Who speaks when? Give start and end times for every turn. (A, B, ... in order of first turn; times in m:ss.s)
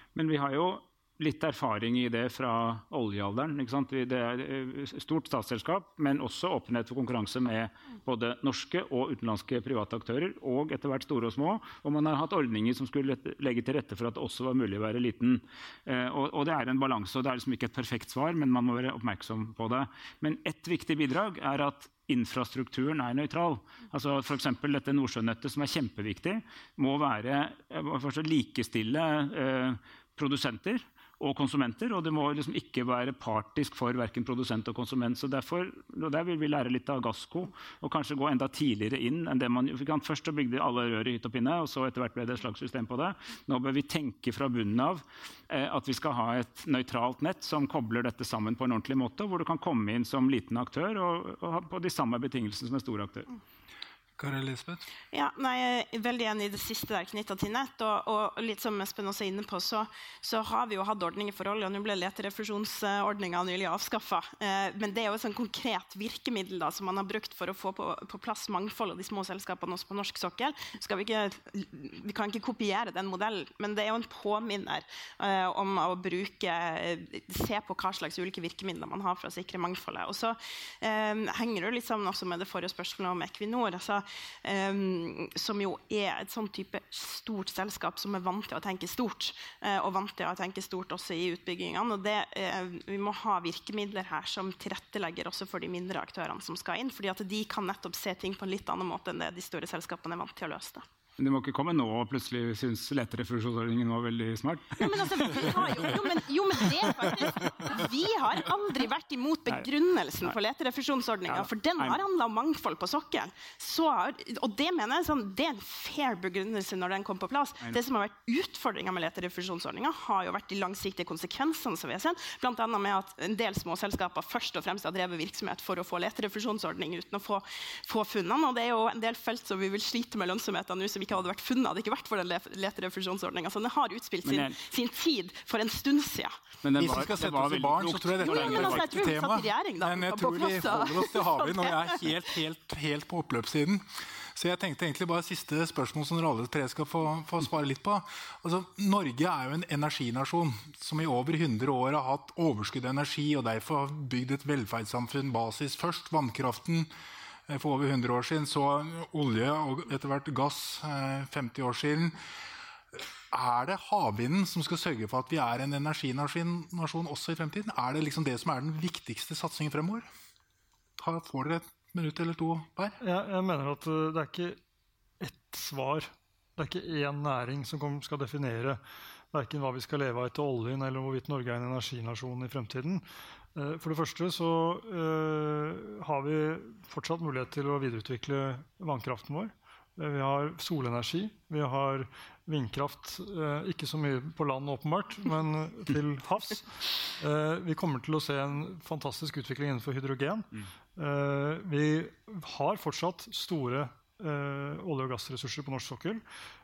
0:00.1-0:53.3 A
0:54.2-0:54.8 B
0:55.1-1:40.8 C
1:41.2-1:45.9 A
1:44.8-2:16.4 C
1:46.9-1:47.8 A
1:51.3-1:52.0 A
2:14.2-2:14.6 A
2:16.6-2:18.9 A
2:16.8-2:36.9 B
2:18.2-2:22.1 C
2:37.5-2:42.2 B
2:43.0-2:50.1 B
2:51.0-2:53.0 B
2:53.0-2:54.6 D
2:55.2-2:58.8 D
2:59.3-3:26.2 D